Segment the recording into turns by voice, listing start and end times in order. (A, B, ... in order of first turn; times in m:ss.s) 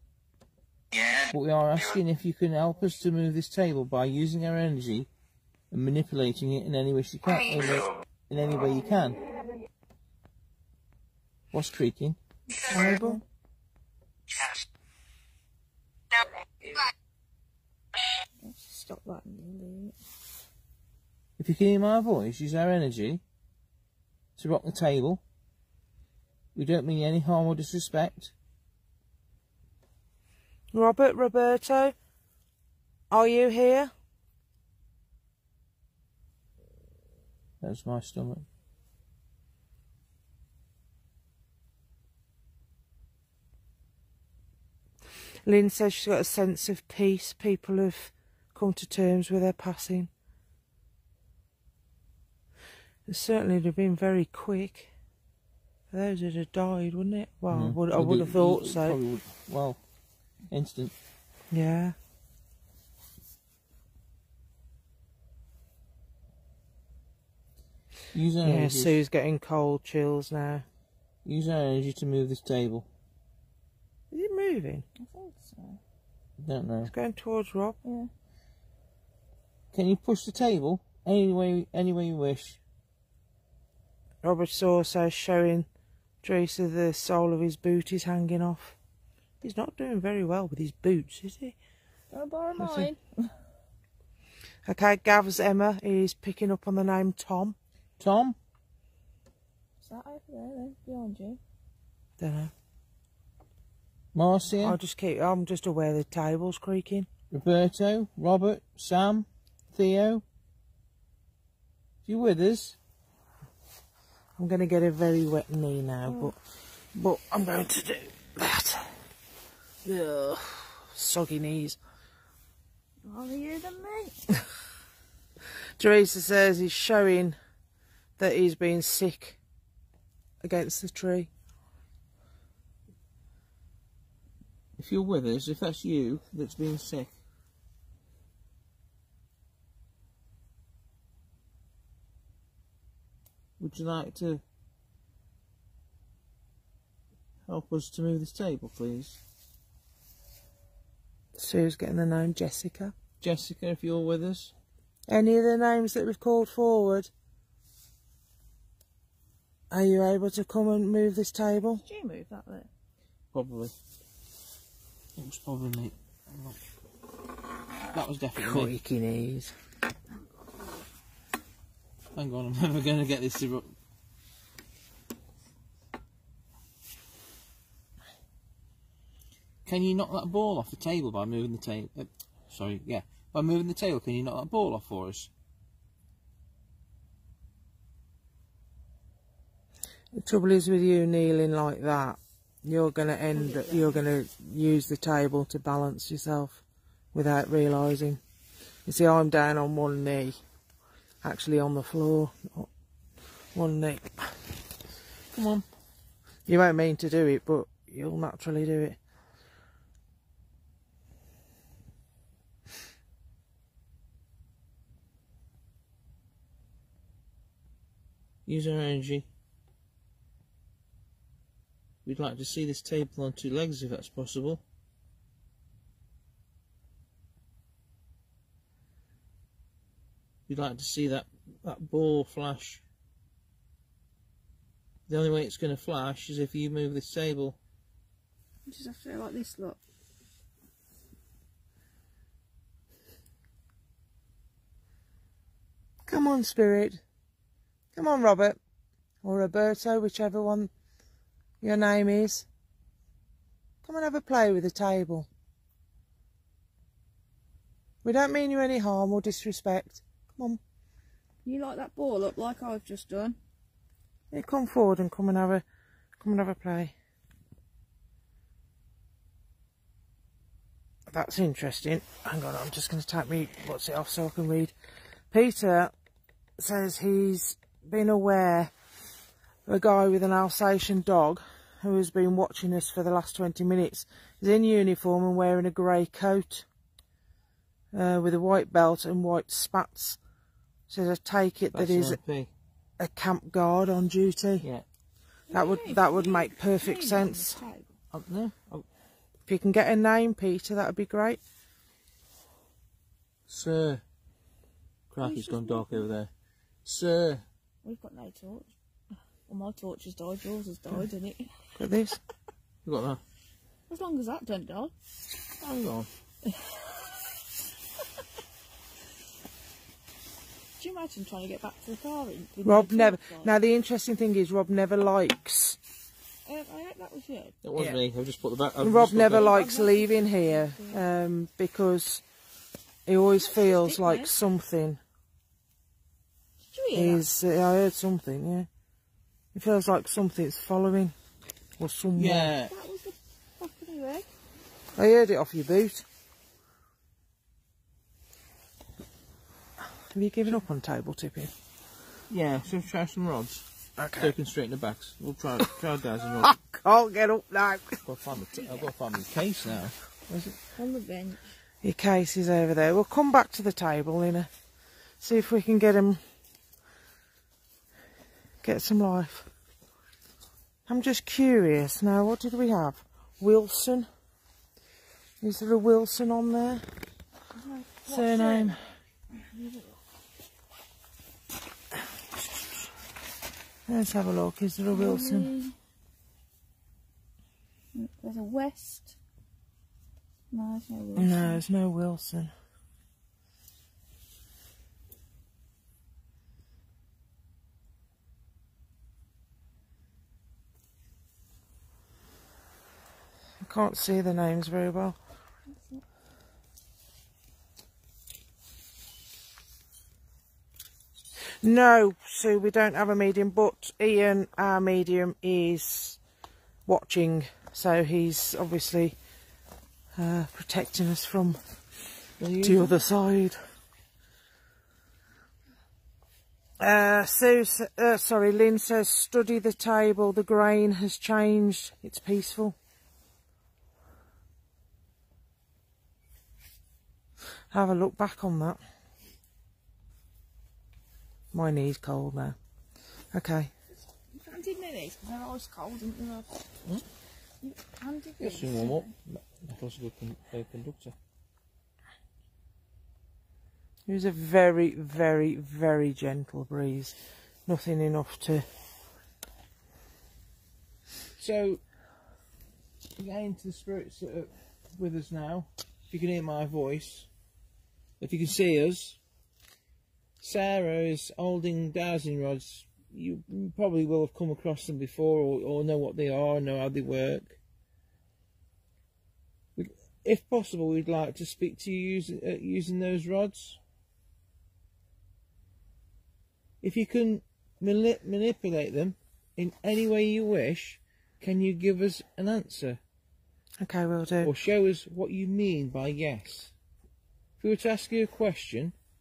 0:01.3-0:05.1 A
0:05.7-0:09.2 A
0:11.5-0:12.2 A
0:12.5-0:13.2 B
0:12.7-0:13.2 C
0:18.4-0:20.0 B
0:21.4-0:23.2 A
0:24.4-0:25.2 A
0:26.5-0:28.3 A
0:30.7-0:31.9 C
0:33.1-0:33.9 C
0:37.6-0:38.4 A
0:45.4-0:50.1 C
0:53.1-0:54.9 C
0:55.9-0:59.0 C
0:57.5-0:59.8 A
1:00.5-1:00.9 A
1:01.5-1:02.0 C
1:08.1-1:09.0 A
1:08.4-1:10.6 C
1:11.2-1:12.9 A
1:14.1-1:14.8 C
1:15.0-1:15.8 B
1:16.4-1:16.9 A
1:16.8-1:17.8 C
1:17.8-1:18.1 B
1:19.7-1:22.6 A
1:24.2-1:25.6 C
1:26.2-1:28.8 C
1:29.4-1:31.6 C
1:32.1-1:33.0 B
1:32.6-1:32.9 C
1:34.6-1:37.6 C
1:38.0-1:38.4 A
1:39.8-1:41.4 B
1:42.2-1:42.5 C
1:44.1-1:44.8 A
1:44.6-1:47.1 C
1:47.3-1:50.2 A
1:52.0-1:52.8 A
1:54.4-1:56.4 C
1:56.1-1:56.3 B
1:56.9-1:59.0 C
1:59.8-2:01.8 C
2:03.0-2:04.2 B
2:05.8-2:07.4 C
2:08.2-2:09.4 C
2:10.4-2:11.3 C
2:14.8-2:17.1 A
2:23.6-2:24.4 A
2:27.4-2:29.2 A
2:31.4-2:32.9 C
2:33.2-2:34.5 A
2:35.1-2:37.1 C
2:39.7-2:41.8 C
2:41.8-2:42.7 B
2:43.3-2:43.7 A
2:45.2-2:46.6 A
2:47.9-2:48.7 A
2:48.4-2:49.5 C
2:52.1-2:53.7 A
2:59.6-3:05.3 A
3:10.1-3:16.6 C
3:13.3-3:14.0 B
3:17.1-3:18.2 C
3:18.8-3:20.4 C
3:21.2-3:22.7 C
3:23.5-3:24.3 C
3:25.3-3:25.6 A
3:26.5-3:29.0 C
3:38.4-3:39.2 A
3:42.0-3:44.6 A
3:50.5-3:52.8 A
3:55.1-3:57.6 A
3:58.6-3:59.8 B
4:06.1-4:07.0 C
4:07.9-4:08.6 C
4:09.2-4:10.7 C
4:11.6-4:12.5 C
4:13.8-4:15.3 C
4:18.0-4:20.6 C
4:21.4-4:23.4 B
4:24.3-4:25.6 C
4:26.2-4:26.9 C
4:31.1-4:34.7 C
4:35.3-4:35.9 C
4:36.6-4:38.7 C
4:39.6-4:46.6 C
4:47.9-4:50.2 C
4:50.9-4:52.2 C
4:51.7-4:52.5 A
4:53.0-4:54.7 C
4:55.5-4:57.9 B
4:55.5-4:57.6 C
4:58.1-4:58.8 A
4:59.5-5:01.4 C
5:03.5-5:04.0 A
5:05.1-5:06.3 A
5:05.2-5:06.0 B
5:06.8-5:07.4 A
5:07.8-5:08.7 B
5:09.5-5:11.5 B
5:11.8-5:12.2 C
5:12.8-5:13.2 A
5:13.9-5:14.9 B
5:15.6-5:16.1 A
5:20.8-5:23.5 B
5:22.6-5:25.8 C
5:26.4-5:27.6 B
5:27.6-5:29.6 A
5:28.8-5:32.2 C
5:29.3-5:31.0 B
5:33.0-5:35.0 C
5:33.4-5:34.3 B
5:36.7-5:37.2 B
5:36.9-5:38.7 C
5:39.5-5:41.1 C
5:41.8-5:42.5 C
5:42.1-5:42.7 A
5:42.7-5:44.3 B
5:45.0-5:46.0 C
5:50.1-5:51.5 C
5:52.3-5:56.6 A
5:54.0-5:54.3 C
5:56.4-5:58.0 C
5:58.0-6:00.6 A
6:00.7-6:01.4 B
6:01.8-6:04.5 C
6:05.2-6:06.2 C
6:08.6-6:09.5 C
6:10.9-6:14.1 C
6:15.4-6:16.8 C
6:17.5-6:20.0 B
6:18.1-6:18.8 C
6:23.9-6:25.5 C
6:24.9-6:25.7 B
6:27.9-6:29.2 B
6:30.5-6:31.6 B
6:31.2-6:32.5 C
6:43.6-6:45.2 C
6:45.7-6:46.0 B
6:51.6-6:56.2 C
6:56.8-6:59.2 C
7:00.2-7:01.6 C
7:02.4-7:03.0 A
7:02.6-7:03.6 C
7:06.8-7:12.8 C
7:17.7-7:18.8 C
7:21.5-7:22.6 C
7:23.3-7:23.7 C
7:24.3-7:26.6 B
7:27.6-7:29.1 B
7:28.4-7:31.1 A
7:34.1-7:38.6 C
7:41.4-7:41.8 A
7:43.2-7:47.3 A
7:48.2-7:49.2 A
7:50.4-7:57.6 A
7:59.8-8:03.8 A
8:06.8-8:13.0 A
8:13.8-8:14.5 C
8:14.4-8:16.7 A
8:17.6-8:18.9 A